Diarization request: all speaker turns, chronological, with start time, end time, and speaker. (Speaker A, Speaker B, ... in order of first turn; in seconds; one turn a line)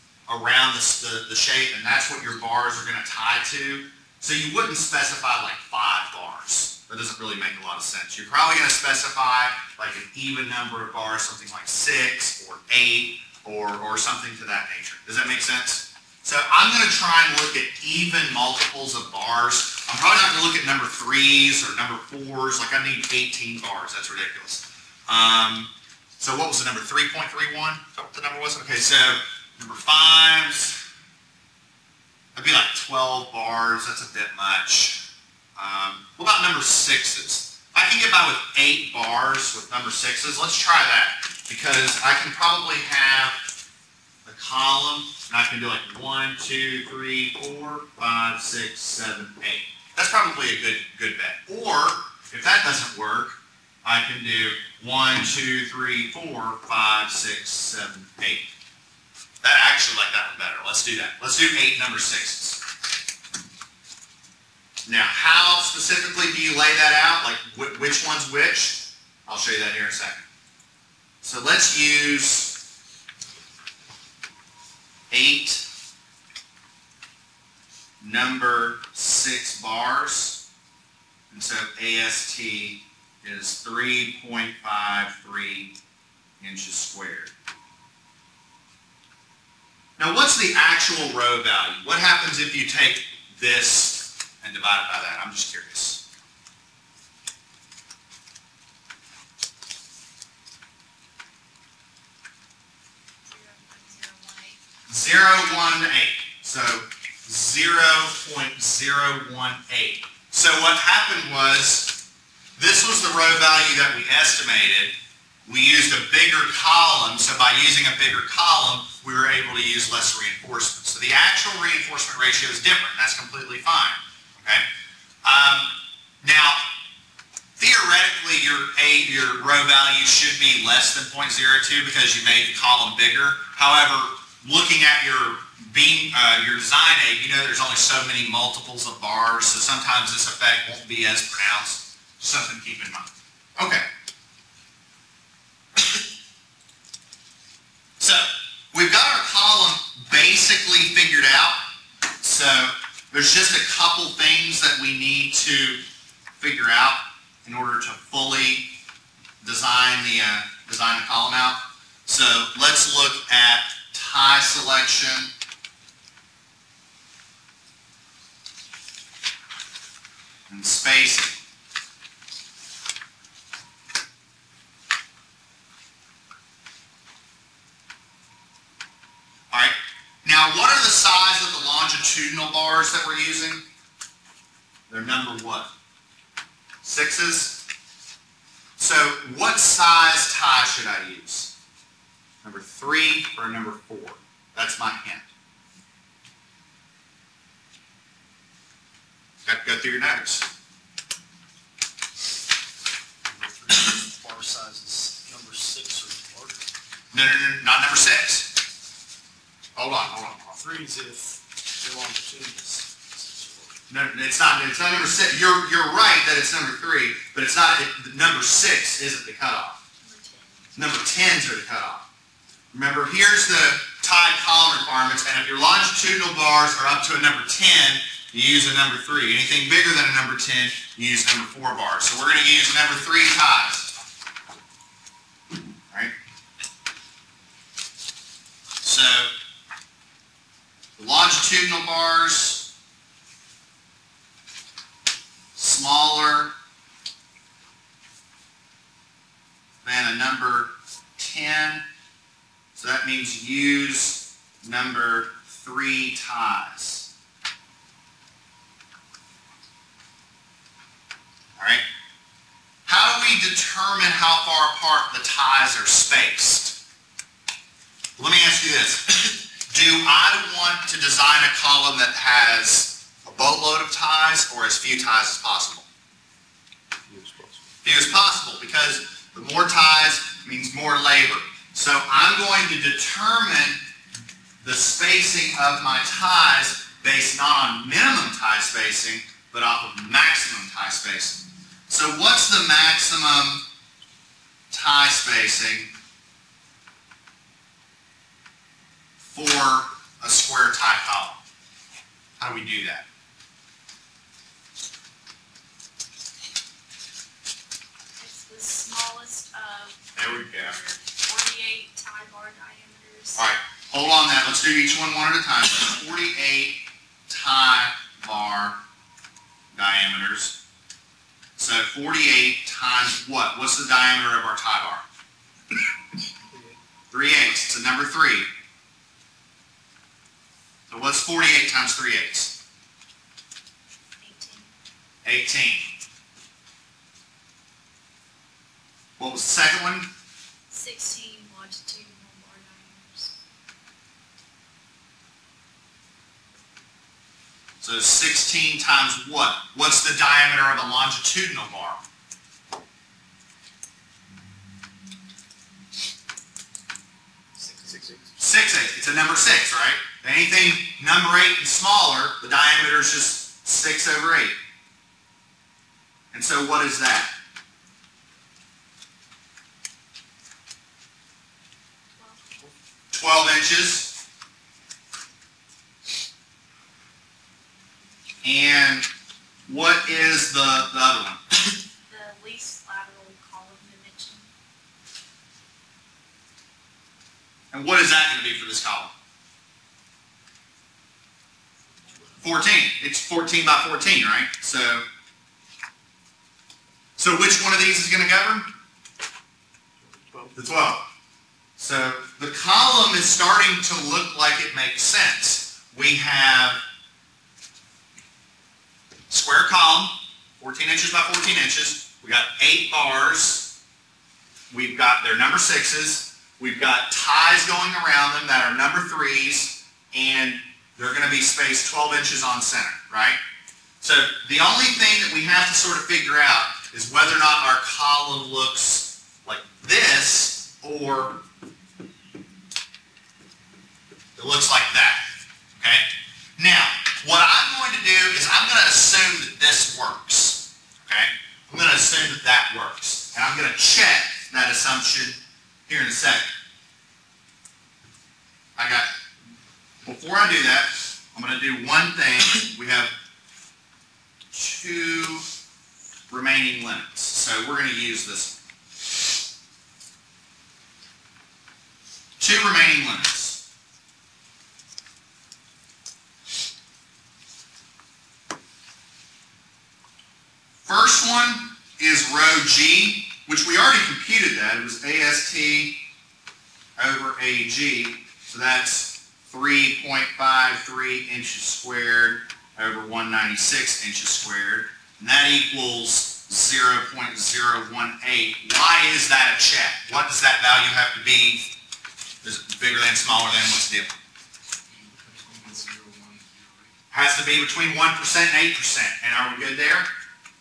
Speaker A: 0.3-30.8
Speaker A: 32.3-43.4
Speaker A: 44.2-58.5
Speaker A: 59.4-62.6
Speaker A: 64.8-70.2
Speaker A: 71.2-72.6
Speaker A: 75.1-75.7
Speaker A: 78.0-80.4
Speaker A: 81.3-85.8
Speaker A: 86.4-87.3
Speaker A: 90.0-96.0
Speaker B: 103.2-104.6
Speaker A: 104.9-112.0
Speaker A: 112.6-114.9
Speaker A: 115.5-124.6
Speaker A: 125.2-126.7
Speaker A: 127.6-143.8
Speaker A: 148.0-151.6
Speaker A: 152.2-155.8
Speaker A: 156.4-158.7
Speaker A: 159.4-165.3
Speaker A: 170.5-171.4
Speaker A: 179.5-183.6
Speaker A: 184.9-185.7
Speaker A: 186.8-187.6
Speaker A: 188.8-191.5
Speaker A: 192.4-195.3
Speaker A: 199.4-200.5
Speaker C: 203.2-206.7
Speaker A: 207.1-208.5
Speaker A: 209.8-210.6
Speaker C: 210.5-213.9
Speaker A: 213.9-219.8
Speaker B: 220.0-220.9
Speaker A: 220.7-222.0
Speaker A: 222.7-233.9
Speaker A: 238.8-239.3
Speaker A: 241.0-242.7
Speaker A: 245.6-246.5
Speaker A: 249.8-251.8
Speaker A: 252.7-257.1
Speaker A: 261.6-261.8
Speaker A: 262.9-266.8
Speaker A: 268.2-275.9
Speaker C: 277.0-277.7
Speaker A: 277.8-283.8
Speaker A: 284.6-293.6
Speaker A: 294.7-295.9
Speaker A: 299.3-301.4
Speaker A: 302.4-303.1
Speaker B: 308.2-313.5
Speaker A: 310.1-310.8
Speaker A: 313.4-318.8
Speaker A: 319.7-320.6
Speaker A: 321.6-325.0
Speaker C: 326.4-326.8
Speaker A: 327.1-328.5
Speaker A: 330.9-332.6
Speaker B: 334.2-334.7
Speaker A: 335.2-335.9
Speaker A: 339.2-340.1
Speaker B: 340.7-343.3
Speaker A: 347.8-352.0
Speaker C: 357.6-358.4
Speaker A: 358.4-364.6
Speaker A: 366.3-367.3
Speaker B: 372.1-372.7
Speaker A: 373.1-374.1
Speaker A: 378.4-379.1
Speaker A: 379.7-381.4
Speaker B: 382.1-384.5
Speaker A: 387.7-389.1
Speaker A: 392.4-395.0
Speaker A: 397.2-398.7
Speaker C: 400.0-400.6
Speaker A: 400.5-401.1
Speaker A: 401.8-406.8
Speaker A: 409.3-413.7
Speaker A: 414.7-423.4
Speaker A: 424.0-431.4
Speaker A: 434.4-435.2
Speaker A: 435.8-436.1
Speaker A: 436.6-446.5
Speaker A: 448.8-449.1
Speaker A: 450.0-453.1
Speaker A: 454.5-455.4
Speaker A: 456.3-458.6
Speaker A: 462.4-463.6
Speaker A: 470.8-476.0
Speaker A: 477.0-491.7
Speaker A: 492.4-494.2
Speaker C: 494.9-496.9
Speaker A: 497.1-500.1